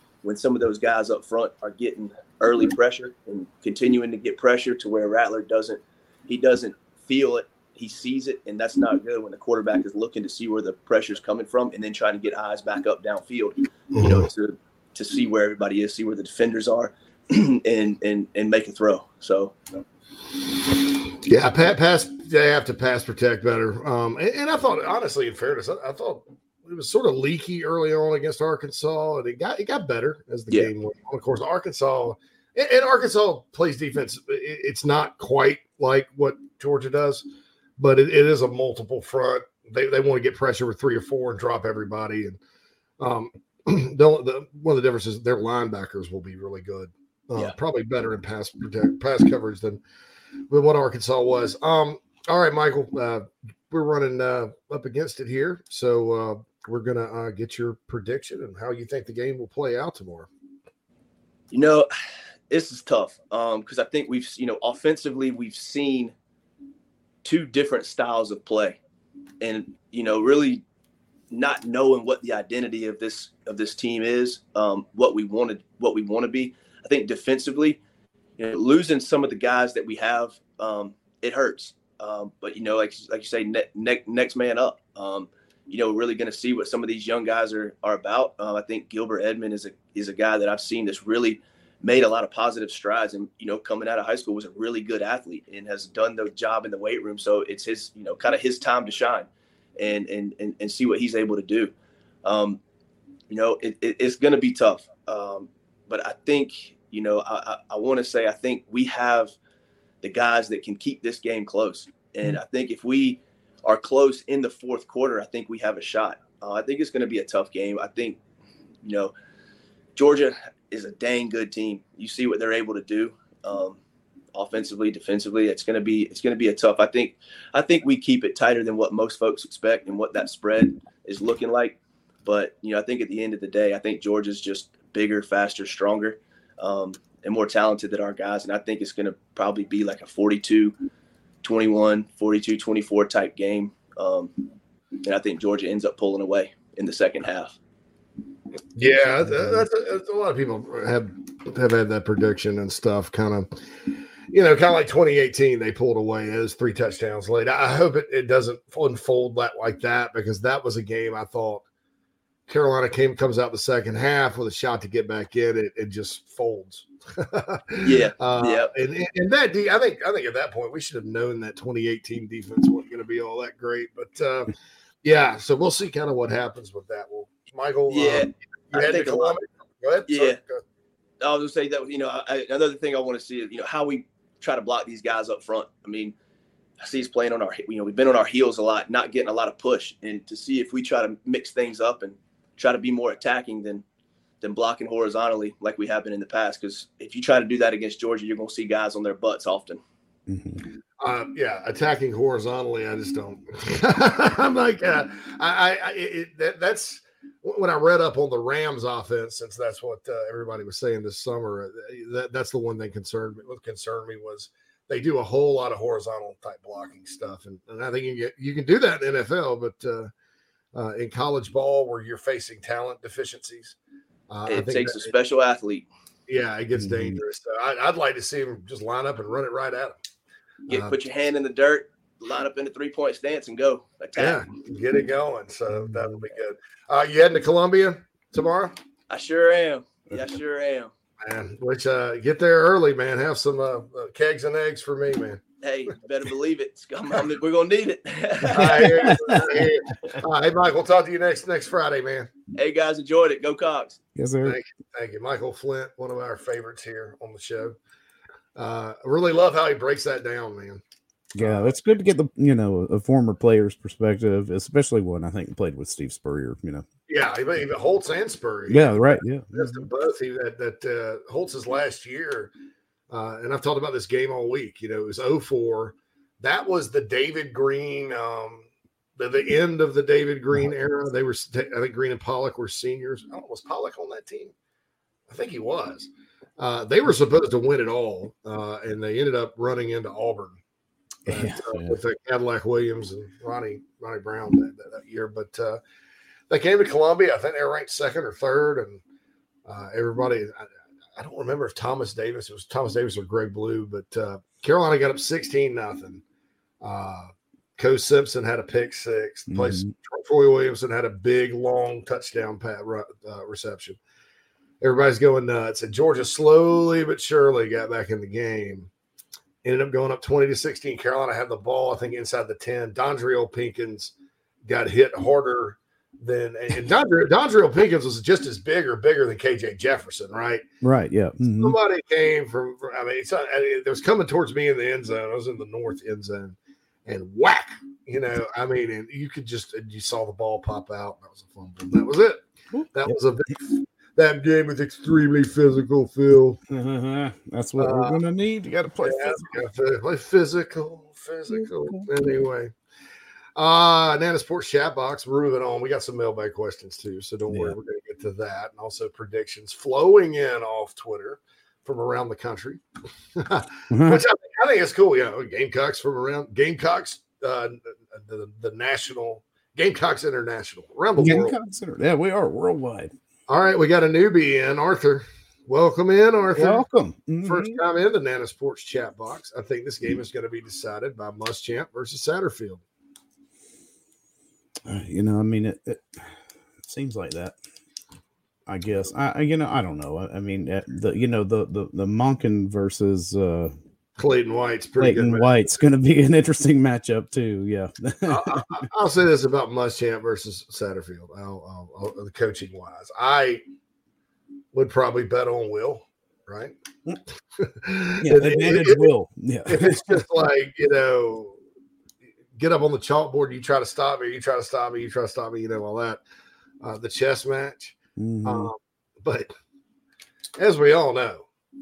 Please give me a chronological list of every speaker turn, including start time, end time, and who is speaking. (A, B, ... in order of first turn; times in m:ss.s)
0:00.2-0:19.5 A
0:13.9-0:14.3 B
0:21.2-0:37.2 B
0:37.8-0:42.4 B
0:43.0-0:49.8 B
0:50.5-1:00.3 B
1:01.5-1:01.9 A
1:02.5-1:06.1 A
1:07.2-1:08.8 A
1:09.4-1:10.6 A
1:11.3-1:17.8 A
1:18.4-1:41.7 A
1:42.2-1:42.6 A
1:43.3-1:49.3 A
1:50.0-1:58.2 A
1:58.8-1:59.1 A
2:00.0-2:03.8 A
2:04.3-2:20.7 A
2:21.4-2:24.3 A
2:25.0-2:27.6 A
2:28.8-2:33.5 B
2:29.3-2:29.6 C
2:34.3-2:41.6 B
2:42.5-2:54.5 B
2:47.8-2:48.7 A
2:55.0-3:00.6 B
2:57.9-2:59.4 A
3:00.1-3:00.4 A
3:01.2-3:06.1 A
3:06.8-3:13.8 A
3:14.4-3:19.8 A
3:20.3-3:20.6 C
3:21.0-3:40.1 B
3:40.7-3:43.8 B
3:44.3-3:45.1 B
3:44.5-3:45.8 A
3:46.3-3:50.0 B
3:46.8-3:47.2 C
3:50.7-3:54.5 A
3:54.2-3:58.7 B
3:55.7-3:56.1 C
3:59.1-4:00.9 A
4:01.2-4:05.4 B
4:05.6-4:08.9 A
4:08.5-4:12.3 B
4:08.6-4:09.7 C
4:12.6-4:14.0 A
4:14.2-4:14.6 C
4:14.4-4:17.8 B
4:18.6-4:20.8 B
4:21.3-4:26.8 C
4:21.4-4:21.8 B
4:27.1-4:32.5 B
4:28.7-4:29.9 C
4:33.1-4:44.5 B
4:45.3-4:50.6 B
4:51.2-4:52.0 C
4:51.3-4:55.8 B
4:56.5-4:59.0 B
4:59.7-5:06.2 B
5:06.8-5:14.0 B
5:09.5-5:09.9 C
5:14.8-5:18.9 B
5:19.6-5:24.1 B
5:24.6-5:30.6 B
5:30.8-5:31.8 C
5:31.4-5:46.6 B
5:42.7-5:43.2 C
5:46.7-5:49.6 C
5:47.8-5:48.2 B
5:49.0-5:52.7 B
5:51.5-5:52.1 C
5:53.6-6:02.8 B
5:57.5-5:57.8 C
6:03.4-6:11.6 B
6:03.9-6:04.2 C
6:11.2-6:13.1 C
6:13.5-6:16.8 B
6:16.5-6:17.8 C
6:17.4-6:22.8 B
6:24.8-6:27.6 C
6:28.7-6:33.7 C
6:34.2-6:35.8 B
6:35.0-6:38.8 C
6:38.3-6:43.6 B
6:44.7-6:46.7 B
6:47.6-6:49.1 B
6:48.2-6:50.2 C
6:49.7-6:51.6 B
6:52.6-6:56.2 B
6:56.8-6:59.5 B
6:58.2-6:58.7 C
7:00.6-7:01.4 B